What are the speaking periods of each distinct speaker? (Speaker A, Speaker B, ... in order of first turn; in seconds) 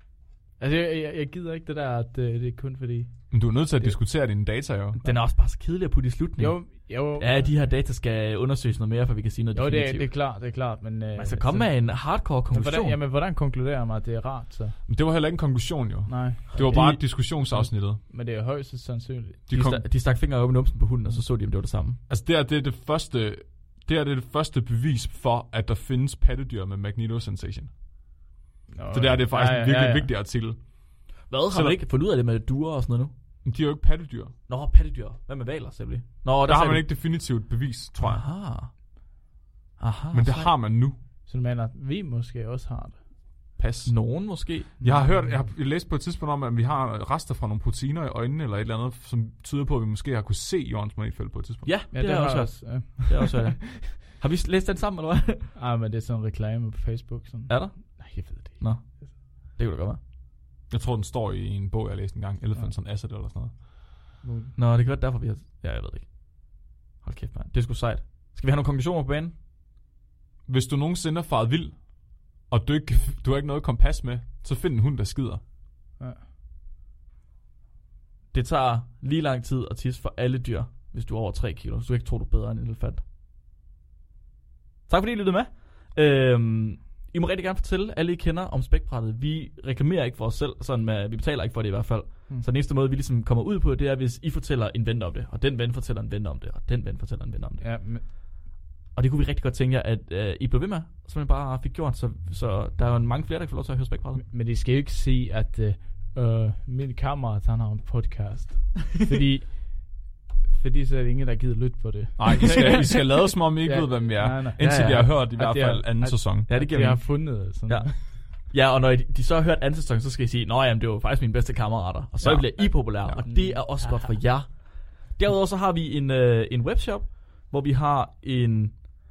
Speaker A: 0.6-4.0, 6.4-7.5, 9.5-11.9, 12.5-14.8, 16.1-19.4, 28.7-30.1, 41.3-43.0, 44.8-45.5, 51.9-53.6, 55.5-59.1, 64.2-64.5, 97.6-98.0, 104.1-118.0, 123.2-124.2
Speaker B: 3.3-5.0, 14.9-18.0, 19.5-19.8, 22.1-27.7, 28.9-30.8, 31.5-31.8, 33.4-34.3, 36.4-38.2, 40.1-41.0, 43.6-43.9, 44.8-51.7, 60.7-63.6, 70.5-71.8, 72.5-75.4, 112.2-116.5, 122.2-123.2
Speaker C: 5.0-10.1, 11.2-12.9, 16.5-17.1, 19.5-22.0, 31.3-33.1, 34.5-36.9, 38.0-38.7, 39.8-40.5, 43.9-44.7, 51.6-55.5, 57.5-60.0, 64.5-69.3, 78.3-83.0, 84.9-97.6, 98.9-104.2, 114.6-115.2, 116.5-129.0